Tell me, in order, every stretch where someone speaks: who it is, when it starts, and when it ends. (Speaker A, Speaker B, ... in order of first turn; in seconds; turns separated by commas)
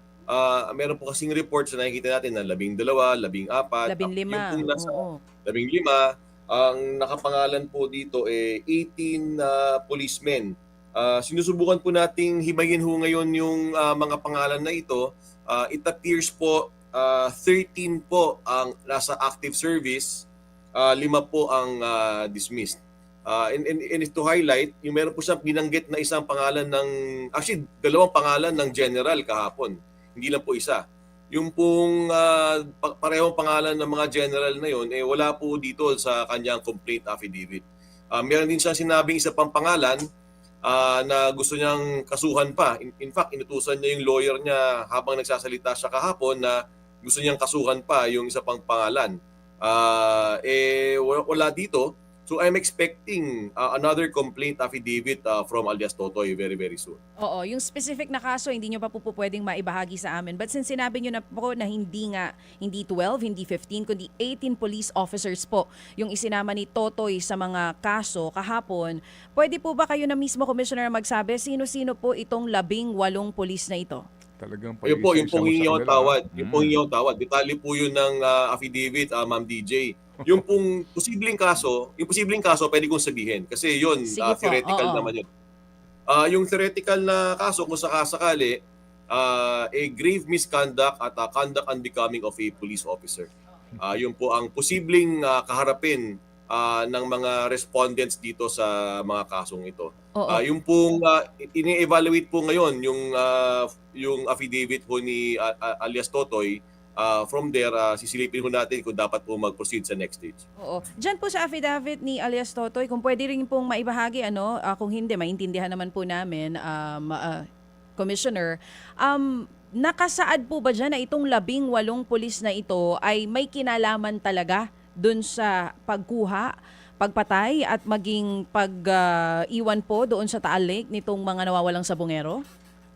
Speaker A: 0.3-30.8, Speaker B: 3.9-5.2, Speaker A: 31.3-40.0, Speaker A: 40.6-57.0, Speaker B: 57.2-74.0, Speaker C: 74.4-76.8, Speaker A: 74.8-85.2, Speaker B: 84.1-85.1, Speaker A: 86.1-88.6, Speaker A: 89.1-110.4, Speaker B: 100.1-100.4, Speaker B: 110.6-117.4, Speaker B: 118.0-119.2, Speaker B: 119.8-126.5, Speaker B: 127.0-132.4